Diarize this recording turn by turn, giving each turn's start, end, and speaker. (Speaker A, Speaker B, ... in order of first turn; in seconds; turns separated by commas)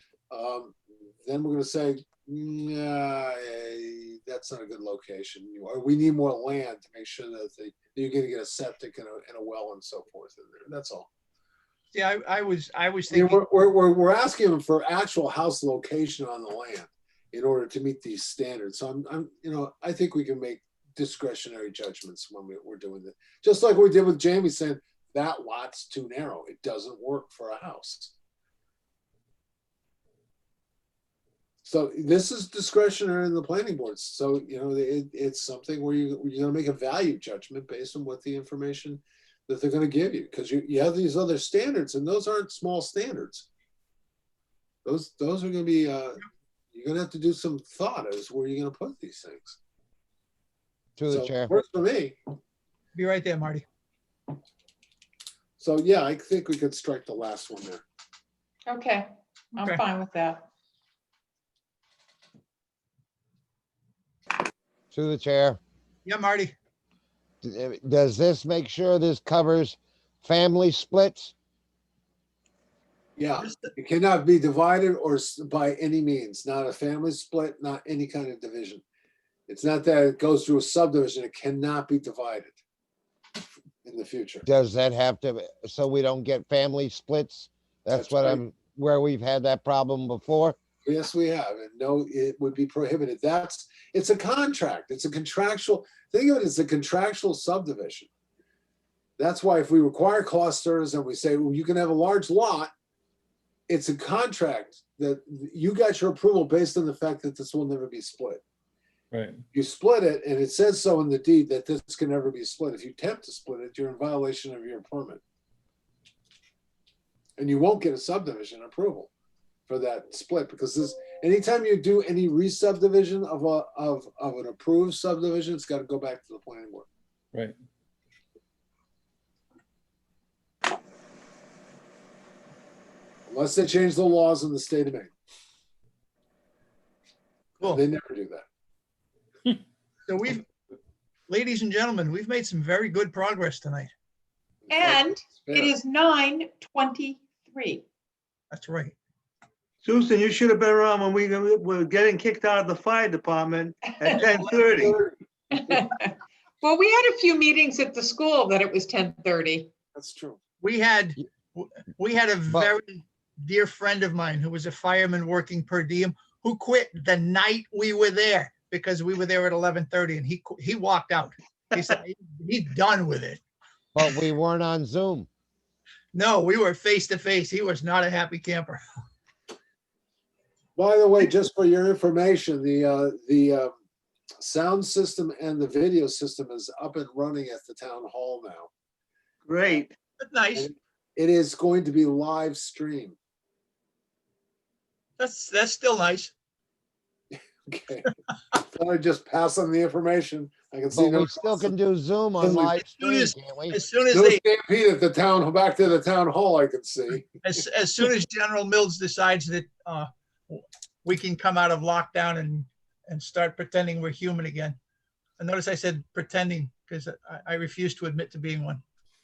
Speaker A: 0.3-11.1, Speaker B: 11.9-13.4, Speaker A: 13.1-28.1, Speaker A: 31.6-43.5, Speaker A: 44.9-49.6, Speaker C: 51.0-51.5, Speaker A: 51.1-52.2, Speaker B: 53.0-53.6, Speaker A: 55.6-57.8, Speaker D: 58.7-60.5, Speaker B: 59.6-59.8, Speaker C: 64.9-65.6, Speaker B: 66.0-66.5, Speaker C: 67.4-71.3, Speaker A: 73.2-78.8, Speaker B: 73.4-73.7, Speaker A: 79.5-82.6, Speaker A: 83.8-84.5, Speaker C: 84.4-90.6, Speaker A: 87.9-88.4, Speaker A: 90.8-98.1, Speaker A: 99.2-102.7, Speaker A: 103.7-108.4, Speaker A: 109.5-115.2, Speaker A: 117.4-119.1, Speaker A: 119.7-126.9, Speaker A: 133.3-135.1, Speaker A: 137.6-138.4, Speaker B: 140.1-140.4, Speaker B: 141.3-143.9, Speaker A: 144.7-145.7, Speaker D: 144.7-147.9, Speaker B: 148.5-148.9, Speaker E: 149.8-155.0, Speaker D: 153.9-154.4, Speaker A: 154.7-155.2, Speaker D: 155.5-159.7, Speaker A: 159.9-160.4, Speaker B: 160.6-173.4, Speaker C: 173.9-175.3, Speaker B: 176.1-178.8, Speaker A: 180.8-183.7, Speaker A: 184.4-188.7, Speaker E: 189.5-189.9, Speaker B: 190.2-190.7, Speaker A: 190.6-193.2, Speaker B: 195.2-196.3, Speaker A: 197.3-201.8, Speaker C: 200.9-203.8, Speaker A: 202.4-202.8, Speaker B: 202.8-204.4, Speaker A: 204.1-207.4, Speaker B: 207.4-214.8, Speaker B: 215.4-218.8